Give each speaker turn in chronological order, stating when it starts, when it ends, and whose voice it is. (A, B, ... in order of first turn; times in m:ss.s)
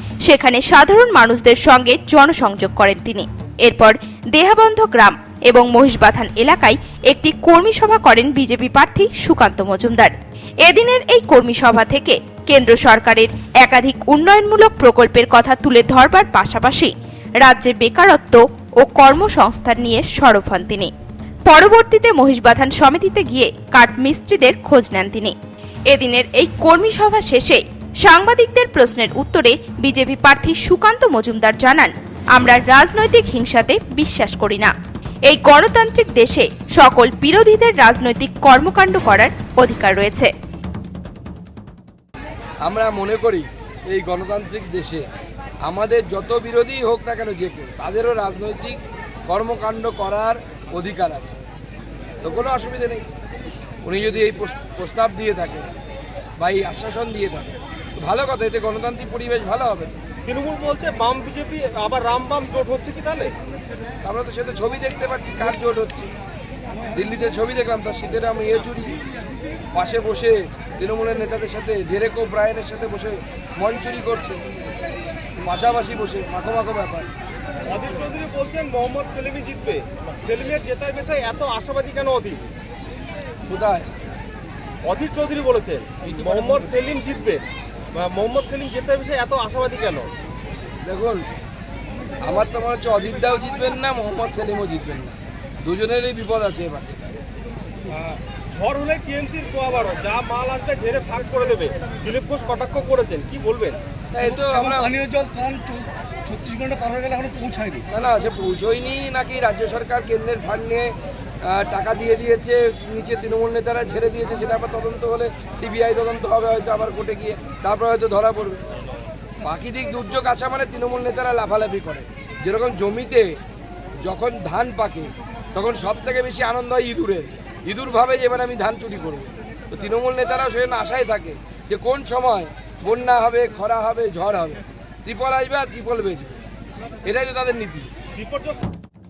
0:00.2-0:20.9 A
0:21.5-0:25.4 A
0:25.9-0:34.7 A
0:35.3-0:40.3 A
0:42.6-0:45.0 B
0:45.6-0:51.4 B
0:52.2-0:53.0 B
0:53.8-0:55.7 B
0:56.4-0:59.9 B
1:00.2-1:03.3 C
1:04.0-1:06.1 B
1:06.9-1:09.0 B
1:09.7-1:14.4 B
1:15.4-1:17.1 B
1:17.7-1:22.5 C
1:23.5-1:23.9 B
1:24.8-1:30.1 C
1:26.0-1:26.7 B
1:30.8-1:31.2 B
1:32.2-1:37.0 B
1:37.9-1:43.8 C
1:44.1-1:44.9 B
1:44.2-1:47.9 D
1:47.9-1:50.9 B
1:51.5-1:58.6 B
1:59.4-2:03.3 B
2:04.0-2:16.4 B
2:17.0-2:17.9 B
2:18.2-2:18.6 C